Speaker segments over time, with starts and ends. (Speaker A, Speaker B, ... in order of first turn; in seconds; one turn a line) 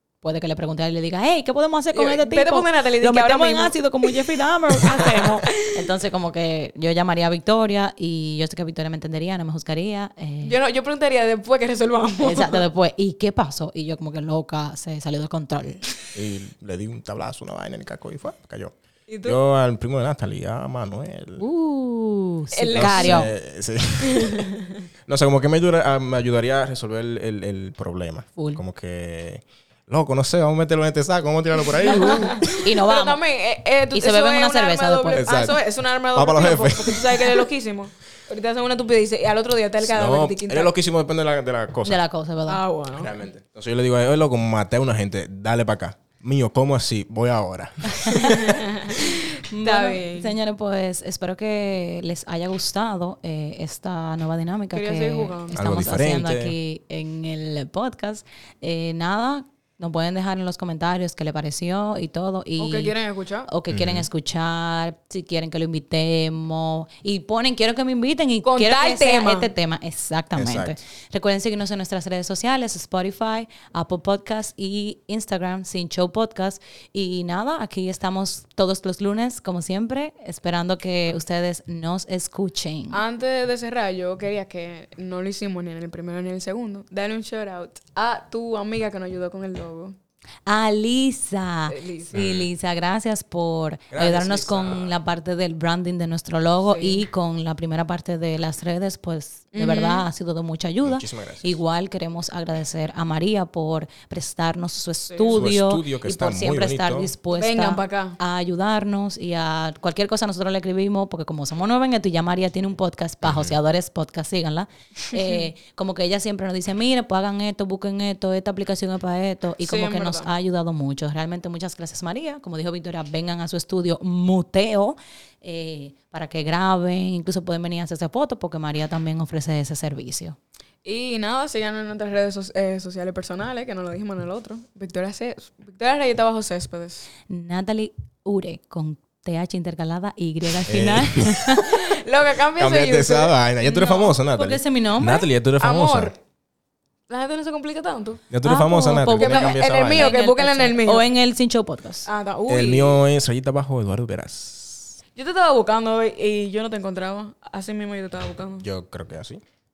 Speaker A: 0.2-10.6
Speaker B: 1.9-4.2
Speaker B: 4.8-5.7
Speaker B: 10.4-12.6
Speaker A: 12.2-15.8
Speaker C: 16.1-21.4
Speaker B: 19.1-19.4
Speaker A: 21.4-23.3
Speaker B: 22.5-23.3
Speaker C: 22.7-24.5
Speaker B: 24.0-24.9
Speaker C: 25.1-32.5
Speaker A: 28.4-28.6
Speaker A: 31.8-33.2
Speaker B: 31.8-40.7
Speaker A: 33.9-35.3
Speaker C: 35.1-35.6
Speaker C: 36.1-37.4
Speaker C: 39.8-42.0
Speaker A: 41.8-42.6
Speaker B: 42.5-43.1
Speaker C: 42.9-48.6
Speaker A: 48.0-48.4
Speaker B: 48.1-50.3
Speaker A: 48.9-62.9
Speaker B: 54.7-55.8
Speaker C: 55.5-56.5
Speaker B: 62.6-63.5
Speaker A: 63.5-83.0
Speaker C: 63.7-64.1
Speaker B: 68.4-69.5
Speaker C: 70.3-70.8
Speaker B: 82.9-90.0
Speaker A: 90.5-130.4
Speaker B: 91.7-92.1
Speaker C: 92.1-92.5
Speaker C: 93.9-94.9
Speaker B: 96.7-97.0
Speaker B: 99.5-100.0
Speaker C: 100.8-101.5
Speaker B: 105.1-105.4
Speaker C: 105.3-107.1
Speaker B: 107.3-108.2
Speaker C: 113.2-113.5
Speaker B: 115.1-115.4
Speaker B: 119.6-120.3
Speaker B: 130.8-137.1
Speaker A: 137.3-141.9
Speaker C: 140.7-141.5
Speaker B: 141.6-144.2
Speaker C: 142.6-146.1
Speaker A: 144.3-145.3
Speaker B: 145.6-146.2
Speaker B: 147.1-148.2
Speaker C: 148.3-150.1
Speaker A: 148.4-152.1
Speaker B: 149.1-151.1
Speaker B: 152.1-153.0
Speaker C: 152.5-155.0
Speaker B: 155.2-158.6
Speaker C: 158.6-159.4